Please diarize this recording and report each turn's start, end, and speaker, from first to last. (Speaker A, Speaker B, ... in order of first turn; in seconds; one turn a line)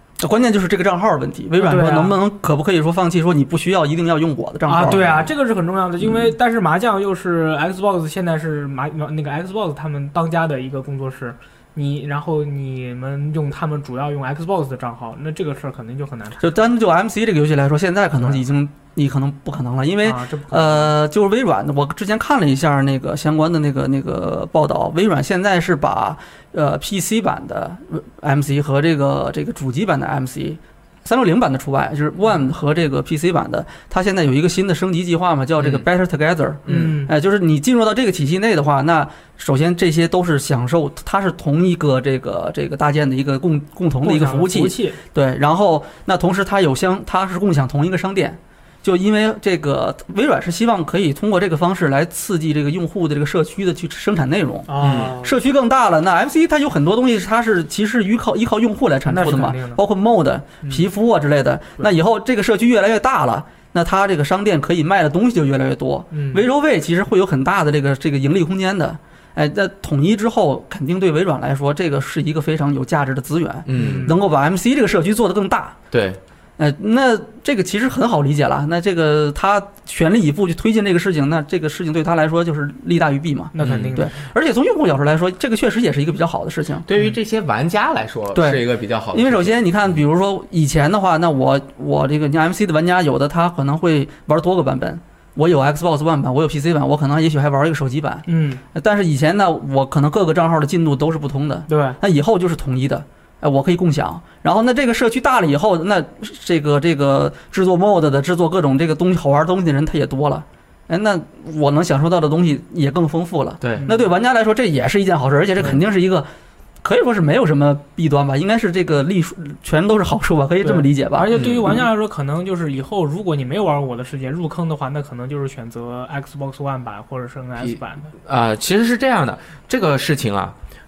Speaker A: 0.2-5.0
Speaker B: 1.6-2.2
Speaker B: 4.7-16.5
Speaker C: 4.9-5.3
Speaker A: 16.4-75.8
Speaker B: 20.0-20.9
Speaker C: 35.6-35.9
Speaker B: 36.7-37.1
Speaker B: 44.0-45.0
Speaker B: 54.7-55.4
Speaker C: 54.8-55.1
Speaker B: 59.1-59.8
Speaker B: 66.1-66.4
Speaker C: 73.7-74.1
Speaker B: 73.7-74.2
Speaker C: 75.9-76.2
Speaker A: 76.6-86.9
Speaker B: 83.5-84.1
Speaker C: 83.6-84.0
Speaker C: 86.9-89.6
Speaker A: 88.3-116.3
Speaker B: 98.3-98.6
Speaker B: 101.7-102.0
Speaker B: 113.8-114.0
Speaker A: 116.8-121.8
Speaker B: 120.6-128.1
Speaker C: 121.3-121.7
Speaker C: 127.6-130.6